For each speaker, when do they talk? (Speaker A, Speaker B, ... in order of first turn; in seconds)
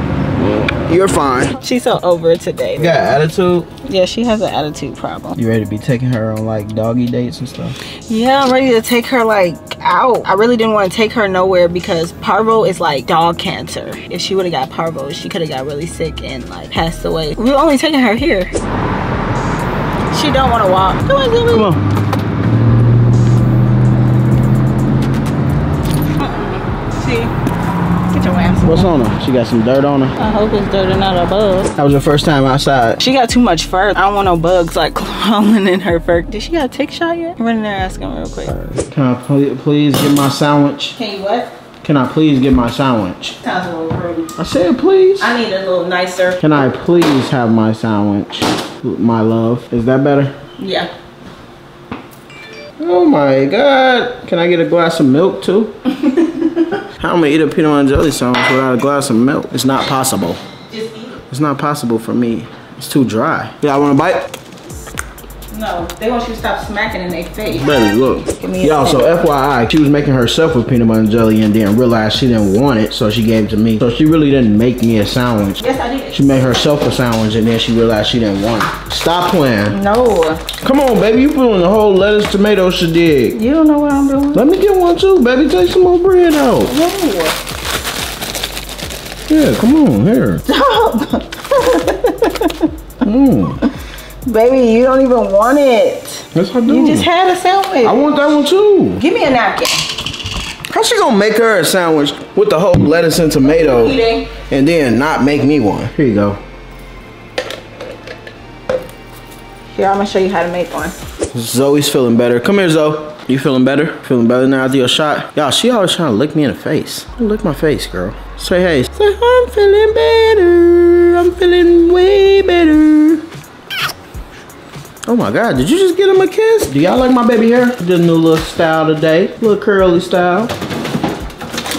Speaker A: 0.4-1.6, 2.8-3.7, 5.3-7.7, 21.5-21.8, 28.6-30.1, 31.8-33.0, 38.5-41.0, 41.8-43.4, 44.4-45.3, 46.4-50.3, 52.8-55.7, 57.0-60.4, 61.3-64.3, 67.5-75.6, 76.1-79.8, 80.6-83.4, 84.3-86.7, 89.3-90.4, 93.0-93.6, 96.3-97.1, 97.8-99.0, 100.7-106.4, 111.3-123.2, 125.0-130.5
Speaker B: 1.6-3.0, 3.8-5.4, 8.1-18.5, 20.1-21.7, 26.2-27.3, 28.1-28.9, 30.2-31.7, 33.0-38.5, 41.0-41.5, 43.4-44.3, 45.2-46.4, 50.6-50.9, 56.1-56.6, 60.7-61.2, 65.5-69.2, 75.6-76.2, 79.7-80.4, 83.3-84.5, 86.7-87.3, 90.5-92.7, 94.2-98.1, 99.0-99.9, 103.4-104.3, 109.7-111.0